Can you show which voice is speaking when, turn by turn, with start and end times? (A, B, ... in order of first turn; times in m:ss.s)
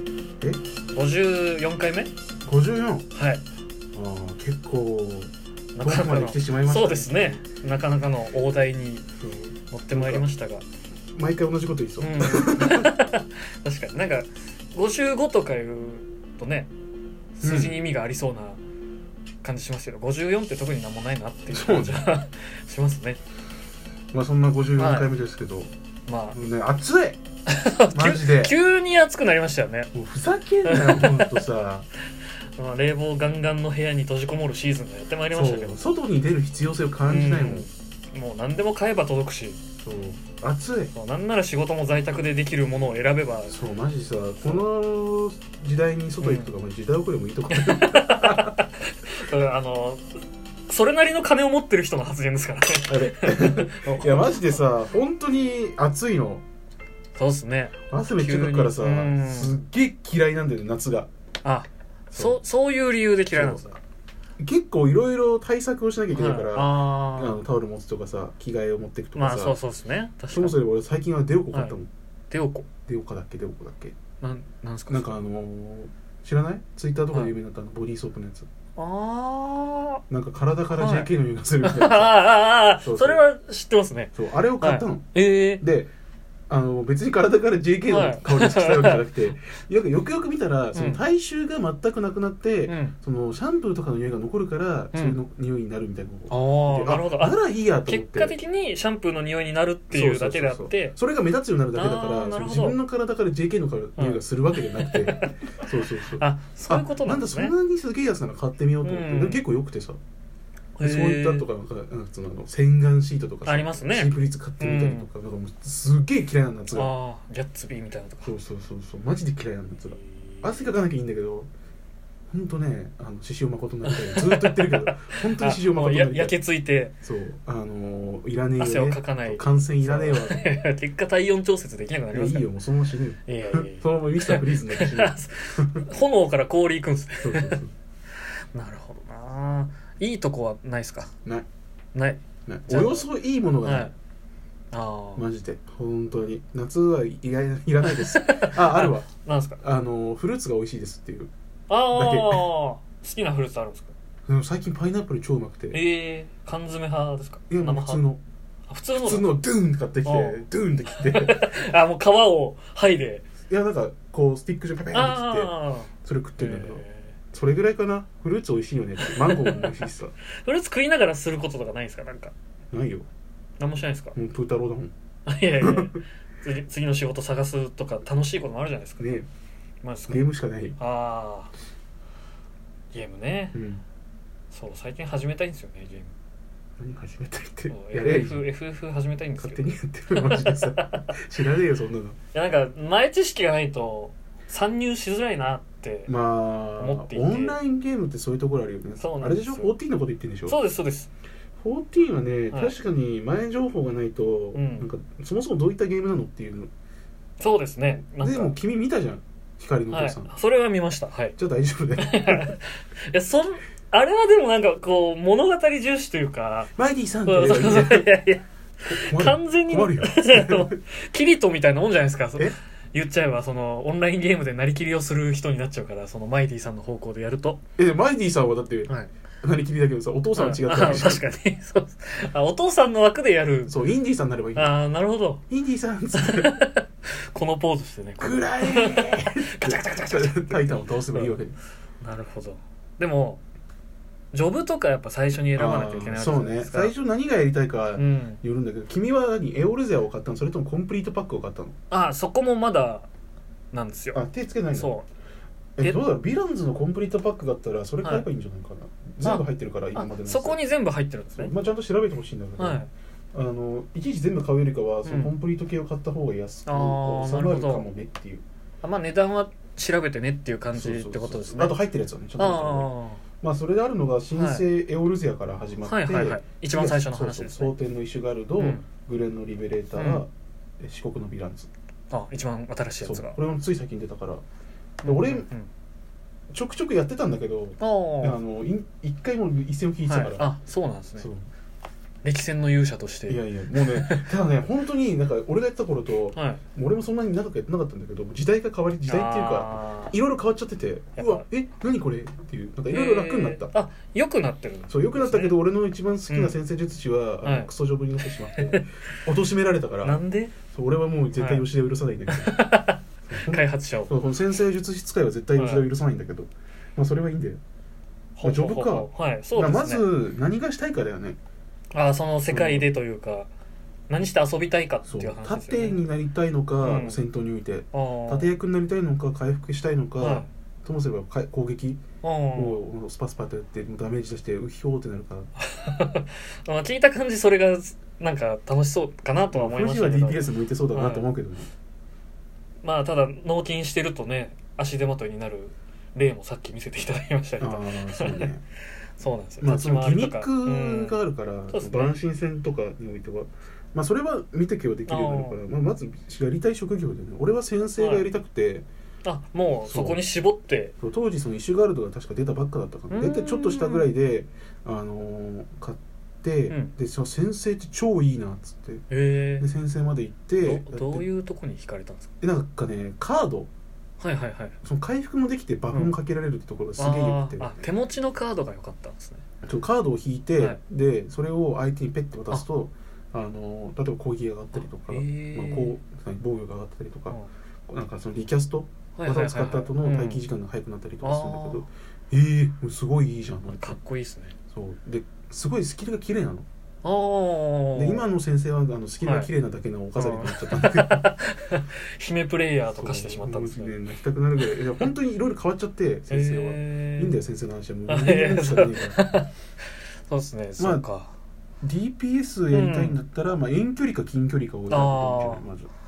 0:00.9-0:02.1 A
0:02.4-0:03.1 B
0:03.1-0:03.4 A
0:03.9-0:07.3 B
0:05.7-0:09.0 A
0:09.2-0:10.2 B
0:09.7-0:10.6 A
0:11.1-0:12.9 B
0:12.0-0:16.7 A
0:17.4-0:18.6 A
0:17.4-0:17.9 B
0:19.4-0:23.2 A
0:21.5-0:22.1 B
0:24.1-0:25.7 B
0:24.8-0:25.1 A
0:26.1-0:26.4 A
0:26.3-0:27.2 B
0:27.5-0:29.9 A
0:27.9-0:28.6 B
0:29.9-0:31.9 B
0:30.6-0:31.4 A
0:32.6-0:35.8 A
0:35.3-0:37.7 B
0:37.1-0:39.6 A
0:39.8-0:40.9 B
0:40.9-0:43.6 A
0:43.5-0:48.6 B
0:44.4-0:44.7 A
0:46.2-0:46.5 A
0:47.5-0:50.0 A
0:50.7-0:54.7 A
0:52.9-0:56.4 B
0:57.2-0:59.6 A
0:57.9-1:01.1 B
1:01.4-1:03.8 A
1:02.1-1:02.4 B
1:03.3-1:03.7 B
1:04.4-1:09.6 B
1:06.1-1:07.4 A
1:09.2-1:10.6 A
1:10.3-1:11.9 B
1:12.3-1:12.7 A
1:12.9-1:14.0 B
1:14.2-1:15.2 A
1:14.9-1:18.5 B
1:18.8-1:20.0 A
1:20.1-1:22.2 B
1:20.7-1:21.1 A
1:21.6-1:25.6 A
1:22.8-1:23.2 B
1:24.2-1:25.1 B
1:25.6-1:25.9 B
1:26.5-1:38.3 B
1:27.9-1:29.0 A
1:30.7-1:31.0 A
1:32.7-1:32.9 A
1:34.9-1:35.2 A
1:36.3-1:41.0 A
1:39.9-1:50.0 B
1:41.7-1:42.8 A
1:44.0-1:45.6 A
1:46.2-1:47.5 A
1:48.8-1:49.4 A
1:50.8-1:51.5 A
1:50.8-1:56.9 B
1:53.4-1:55.1 A
1:56.7-1:58.3 A
1:58.2-2:01.5 B
2:02.3-2:06.4 B
2:03.8-2:06.9 A
2:07.0-2:10.4 B
2:08.6-2:12.5 A
2:12.1-2:15.8 B
2:13.2-2:17.6 A
2:17.2-2:17.7 B
2:18.5-2:21.1 A
2:21.9-2:23.1 A
2:22.5-2:23.9 B
2:23.6-2:23.9 A
2:24.7-2:25.3 A
2:25.2-2:31.3 B
2:27.8-2:29.6 A
2:31.7-2:33.9 A
2:31.9-2:32.5 B
2:34.3-2:35.8 B
2:35.7-2:38.0 A
2:37.5-2:38.2 B
2:38.7-2:39.3 A
2:39.0-2:41.6 B
2:40.0-2:43.2 A
2:43.5-2:45.5 B
2:44.9-2:47.2 A
2:46.0-2:50.1 B
2:49.0-2:49.8 A
2:50.4-2:52.3 A
2:52.7-2:53.1 B
2:53.6-2:54.2 A
2:54.1-2:54.9 B
2:55.2-2:59.0 A
2:55.6-2:56.0 B
2:59.0-2:59.3 B
2:59.8-3:00.2 A
3:00.1-3:00.8 B
3:00.8-3:01.5 A
3:02.9-3:03.6 A
3:03.5-3:03.8 B
3:04.5-3:06.1 A
3:06.8-3:08.4 B
3:07.7-3:11.1 A
3:09.4-3:12.2 B
3:12.3-3:16.1 A
3:16.1-3:20.6 B
3:16.8-3:17.6 A
3:19.0-3:19.7 A
3:20.5-3:21.1 A
3:21.6-3:26.7 B
3:24.5-3:24.9 A
3:27.4-3:28.5 A
3:28.2-3:30.3 B
3:29.9-3:31.4 A
3:31.4-3:32.5 B
3:32.0-3:36.7 A
3:36.8-3:38.1 B
3:37.2-3:47.6 A
3:38.8-3:40.8 B
3:47.8-3:51.2 B
3:50.3-3:53.8 A
3:53.7-3:54.8 B
3:54.6-3:55.4 A
3:55.5-3:56.5 B
3:56.2-4:01.4 A
3:58.2-4:01.6 B
4:02.0-4:03.4 A
4:04.3-4:06.9 A
4:05.5-4:11.8 B
4:08.0-4:08.4 A
4:11.9-4:13.1 A
4:13.7-4:14.2 A
4:14.1-4:14.9 B
4:14.7-4:15.1 A
4:15.8-4:20.6 B
4:19.2-4:21.5 A
4:21.3-4:28.4 B
4:22.6-4:22.9 A
4:25.0-4:25.3 A
4:26.7-4:27.9 A
4:28.8-4:31.8 A
4:30.7-4:41.7 B
4:32.4-4:33.2 A
4:34.3-4:34.6 A
4:35.8-4:37.7 A
4:38.6-4:38.8 A
4:39.9-4:40.2 A
4:42.1-4:43.4 A
4:43.0-4:44.4 B
4:45.0-4:45.5 B
4:45.0-4:45.7 A
4:46.5-4:50.5 B
4:47.8-4:48.4 A
4:50.0-4:51.3 A
4:51.2-4:51.5 B
4:52.2-4:54.3 A
4:53.3-5:03.7 B
4:56.3-4:56.6 A
4:59.1-5:00.2 A
5:01.2-5:01.4 A
5:02.9-5:05.6 A
5:04.9-5:10.2 B
5:06.3-5:06.6 A
5:07.4-5:07.7 A
5:08.6-5:08.8 A
5:10.0-5:10.5 A
5:10.7-5:12.5 B
5:11.4-5:11.6 A
5:12.3-5:14.1 A
5:13.3-5:17.6 B
5:15.6-5:15.8 A
5:18.4-5:20.1 A
5:18.4-5:21.4 B
5:21.9-5:23.5 A
5:22.5-5:22.9 B
5:24.1-5:26.0 A
5:25.0-5:32.0 B
5:26.8-5:27.2 A
5:27.9-5:28.5 A
5:30.2-5:30.5 A
5:32.2-5:32.8 A
5:32.5-5:35.5 B
5:35.6-5:41.3 A
5:39.5-5:41.7 B
5:42.8-5:48.5 A
5:47.6-5:48.6 B
5:49.2-5:51.2 A
5:49.6-5:58.9 B
5:51.7-5:52.2 A
5:55.1-5:55.6 A
5:58.0-5:58.2 A
5:59.2-6:00.9 A
5:59.9-6:00.2 B
6:01.0-6:09.0 B
6:03.1-6:04.1 A
6:06.7-6:06.9 A
6:09.1-6:09.7 A
6:09.6-6:11.3 B
6:10.6-6:12.3 A
6:12.4-6:13.7 B
6:14.2-6:14.8 A
6:14.8-6:17.8 B
6:17.0-6:19.4 A
6:19.6-6:34.0 B
6:24.7-6:26.0 A
6:29.1-6:30.4 A
6:31.2-6:31.9 A
6:33.7-6:34.6 A
6:34.7-6:36.6 B
6:37.0-6:38.2 A
6:37.9-6:41.3 B
6:39.2-6:39.5 A
6:40.2-6:44.0 A
6:42.9-6:49.2 B
6:46.3-6:47.4 A
6:48.1-6:49.5 A
6:50.3-6:51.3 A
6:50.8-6:51.0 B
6:51.8-6:55.9 B
6:52.7-6:53.2 A
6:54.9-6:55.6 A